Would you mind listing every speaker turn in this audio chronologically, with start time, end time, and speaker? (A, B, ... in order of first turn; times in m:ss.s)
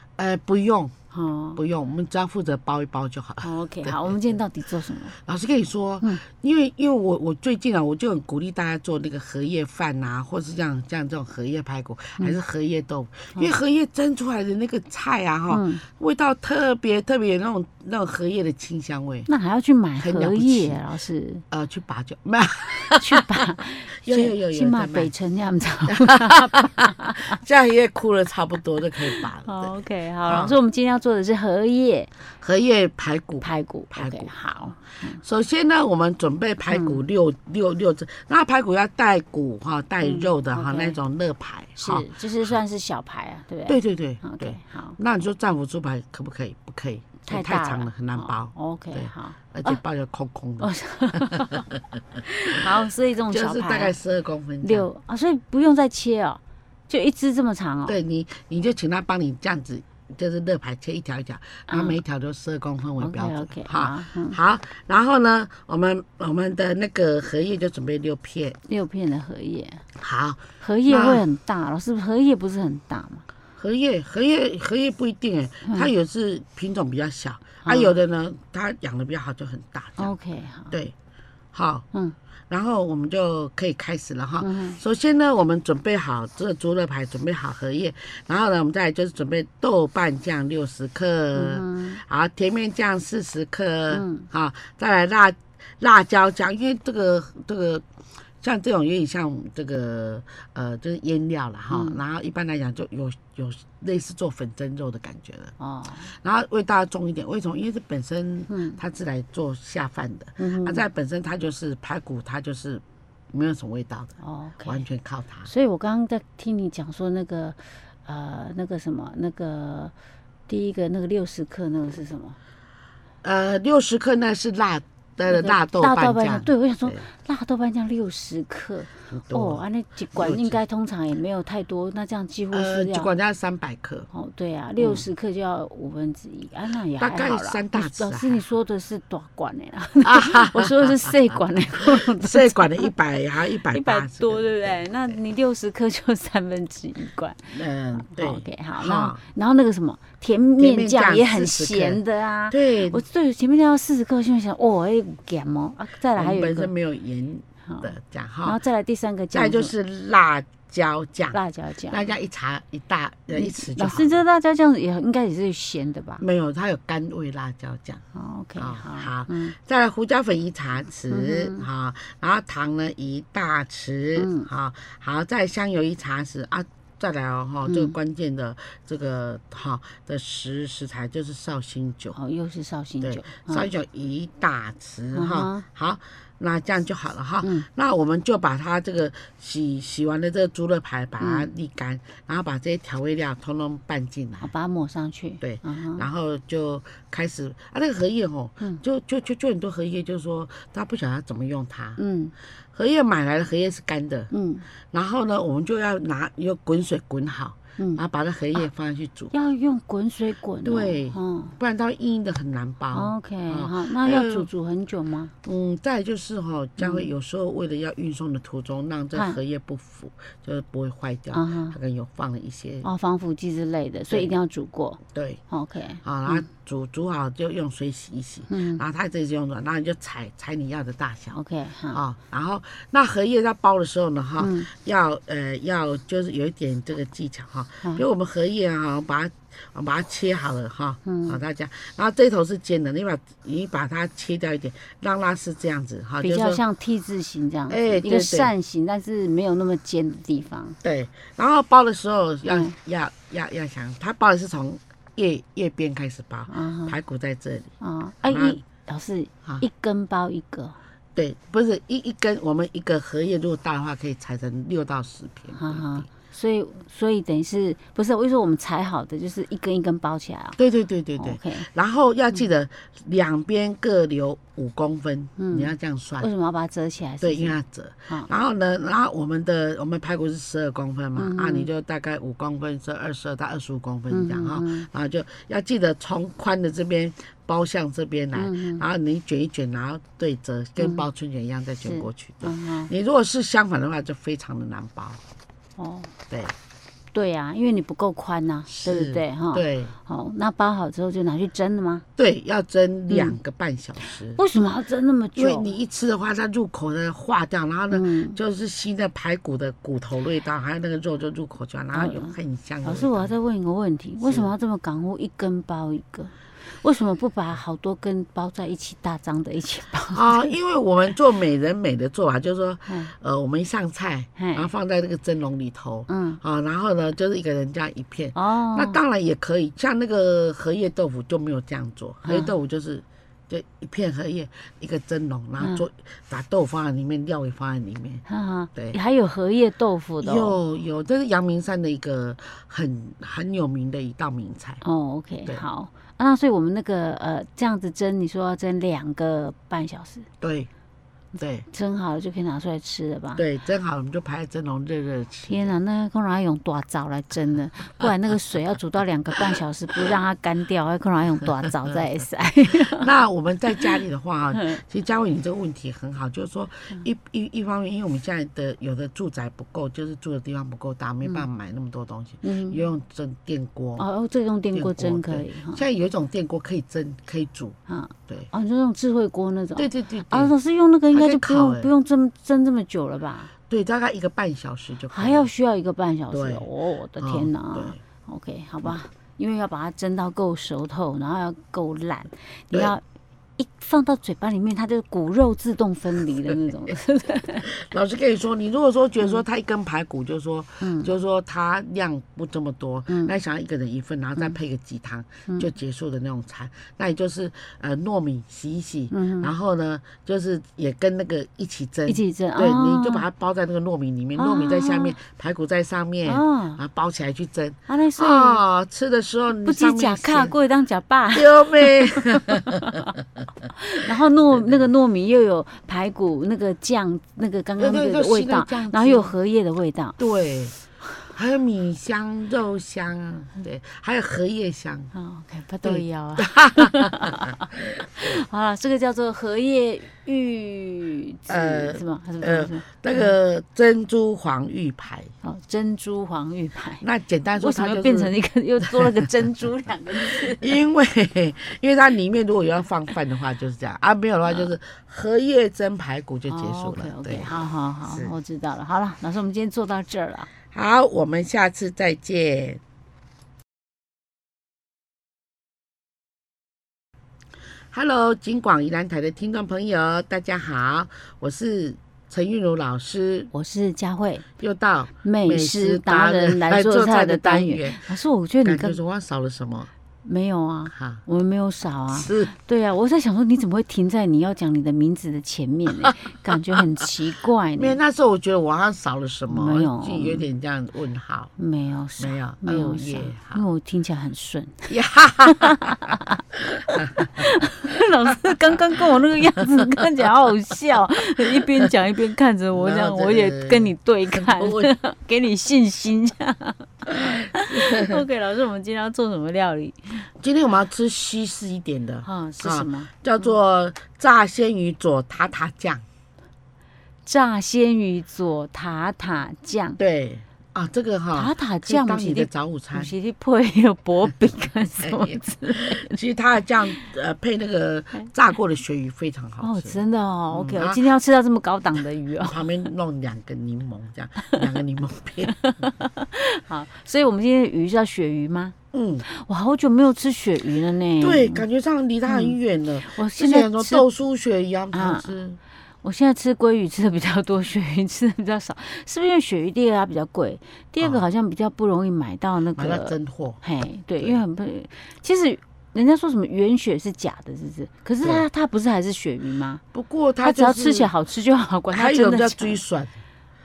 0:00.2-0:00.9 A
0:01.1-0:01.6 B
0:01.6-0:04.4 A
0:03.4-0:05.1 B
0:05.1-0:19.3 A
0:15.5-0:15.8 B
0:19.3-0:21.4 B
0:20.0-0:20.8 A
0:21.5-0:25.1 A
0:22.9-0:27.4 B
0:26.0-0:29.7 A
0:29.4-0:32.1 B
0:30.3-0:30.6 A
0:32.3-0:42.6 A
0:33.4-0:35.2 B
0:36.7-0:37.0 B
0:40.0-0:41.0 B
0:41.8-0:45.0 B
0:43.7-0:50.7 A
0:47.2-0:49.8 B
0:50.6-0:51.6 B
0:51.2-0:52.2 A
0:52.2-0:54.0 B
0:53.3-0:54.9 A
0:54.6-0:58.0 B
0:57.9-1:08.6 A
1:01.7-1:02.0 B
1:03.0-1:04.4 B
1:08.7-1:09.8 B
1:10.0-1:11.2 A
1:10.6-1:13.2 B
1:13.6-1:20.1 A
1:15.6-1:15.9 B
1:17.6-1:18.0 B
1:20.0-1:20.8 B
1:21.5-1:21.8 A
1:22.5-1:37.8 A
1:24.4-1:24.8 B
1:31.4-1:32.0 B
1:33.9-1:34.3 B
1:38.4-1:55.5 A
1:41.7-1:42.0 B
1:45.6-1:46.1 B
1:48.5-1:48.8 B
1:50.4-1:50.9 B
1:54.2-1:54.8 B
1:55.5-1:59.9 B
2:00.5-2:02.4 B
2:03.2-2:07.1 A
2:05.3-2:13.1 B
2:09.1-2:09.6 A
2:10.2-2:10.6 A
2:12.5-2:14.1 A
2:14.1-2:22.9 B
2:14.8-2:15.0 A
2:17.0-2:18.5 A
2:20.0-2:21.1 A
2:21.9-2:25.2 A
2:23.6-2:36.7 B
2:27.4-2:29.2 A
2:30.6-2:33.0 A
2:36.2-2:38.6 A
2:37.6-2:37.9 B
2:38.4-2:39.7 B
2:39.3-2:41.4 A
2:41.3-2:42.0 B
2:41.9-2:44.2 A
2:43.3-2:46.2 B
2:46.2-2:48.0 A
2:48.1-2:49.6 B
2:48.6-3:02.2 A
2:51.1-2:51.7 B
2:54.2-2:54.5 B
2:57.6-2:57.9 B
3:02.2-3:03.7 B
3:03.0-3:14.5 A
3:05.1-3:05.7 B
3:07.4-3:07.7 B
3:11.2-3:11.5 B
3:14.4-3:16.1 B
3:15.4-3:22.0 A
3:22.0-3:22.3 B
3:22.6-3:24.3 A
3:24.3-3:24.6 B
3:24.9-3:29.3 A
3:27.8-3:28.0 B
3:29.3-3:31.6 B
3:30.6-3:34.5 A
3:32.9-3:35.3 B
3:35.4-3:42.9 A
3:36.8-3:37.1 B
3:39.1-3:39.4 B
3:41.3-3:41.8 B
3:42.8-3:46.5 B
3:44.1-3:44.4 A
3:45.1-3:45.4 A
3:46.0-3:51.4 A
3:48.5-3:48.8 B
3:51.3-3:52.0 B
3:51.9-4:06.6 A
3:54.4-3:54.7 B
4:01.0-4:01.4 B
4:06.2-4:10.8 B
4:07.7-4:08.5 A
4:10.8-4:17.7 A
4:12.4-4:12.8 B
4:16.5-4:17.0 B
4:17.8-4:20.8 B
4:18.2-4:18.6 A
4:21.2-4:26.1 A
4:25.5-4:30.6 B
4:30.6-4:36.3 A
4:31.2-4:31.7 B
4:35.4-4:37.6 B
4:37.2-4:55.2 A
4:41.2-4:41.7 B
4:44.1-4:44.9 B
4:48.3-4:48.8 B
4:50.8-4:51.1 B
4:51.8-4:52.9 B
4:55.8-4:56.1 B
4:57.1-5:02.1 B
4:58.7-5:00.0 A
5:02.2-5:04.4 A
5:03.1-5:03.4 B
5:04.3-5:05.7 B
5:05.4-5:13.3 A
5:07.9-5:08.4 B
5:11.9-5:20.5 B
5:14.2-5:14.5 A
5:20.1-5:39.0 A
5:22.9-5:23.1 B
5:24.4-5:24.7 B
5:26.1-5:26.4 B
5:28.3-5:29.0 B
5:32.2-5:32.5 B
5:35.6-5:35.8 B
5:38.3-5:40.6 B
5:40.2-5:44.8 A
5:44.8-5:50.3 B
5:50.4-5:50.7 A
5:51.4-5:51.7 A
5:51.7-5:53.4 B
5:53.4-5:55.8 A
5:55.5-6:03.1 B
6:02.7-6:14.1 A
6:04.5-6:04.8 B
6:12.4-6:12.8 B
6:14.0-6:15.8 B
6:14.7-6:17.8 A
6:17.9-6:23.5 B
6:19.8-6:20.5 A
6:21.1-6:21.9 A
6:23.7-6:25.5 A
6:25.1-6:33.0 B
6:26.3-6:26.7 A
6:27.2-6:28.0 A
6:33.6-6:37.7 B
6:36.3-6:36.9 A
6:37.6-7:00.5 A
6:40.8-6:41.1 B
6:43.1-6:43.4 B
6:49.1-6:49.5 B
6:52.1-6:53.3 B
6:54.4-6:55.2 B
6:56.2-6:56.8 B
6:57.9-6:58.6 B
6:59.6-7:03.1 B
7:01.3-7:03.1 A
7:03.7-7:10.2 B
7:04.5-7:04.8 A
7:07.8-7:09.3 A
7:10.2-7:15.1 A
7:15.1-7:17.7 B
7:15.8-7:18.0 A
7:18.2-7:23.4 B
7:21.5-7:25.3 A
7:25.4-7:30.8 B
7:27.0-7:28.3 A
7:28.9-7:29.3 A
7:30.2-7:37.5 A
7:36.5-7:40.5 B
7:38.1-7:38.3 A
7:40.7-7:42.8 A
7:47.9-7:53.5 A
7:53.5-7:54.5 B
7:54.6-7:58.1 A
7:55.2-7:59.0 B
7:58.6-7:59.9 A
8:00.2-8:08.0 B
8:00.9-8:01.2 A
8:02.1-8:02.5 A
8:07.8-8:11.5 A
8:09.5-8:10.5 B
8:11.6-8:14.9 B
8:12.2-8:13.6 A
8:14.9-8:16.2 A
8:15.5-8:16.4 B
8:17.0-8:17.5 A
8:17.0-8:30.3 B
8:19.9-8:20.3 A
8:22.7-8:24.9 A
8:27.1-8:28.2 A
8:30.4-8:36.0 A
8:32.2-8:33.1 B
8:37.3-8:40.0 B
8:40.0-8:43.1 A
8:41.3-8:46.2 B
8:45.0-8:50.0 A
8:49.6-8:52.7 B
8:50.5-8:51.0 A
8:52.4-8:55.6 A
8:55.5-9:01.7 B
8:58.9-8:59.3 A
9:01.2-9:05.6 A
9:02.3-9:04.1 B
9:04.9-9:05.3 B
9:06.0-9:19.8 B
9:11.0-9:11.2 A
9:12.8-9:13.6 A
9:19.9-9:21.1 A
9:20.4-9:22.8 B
9:21.9-9:23.2 A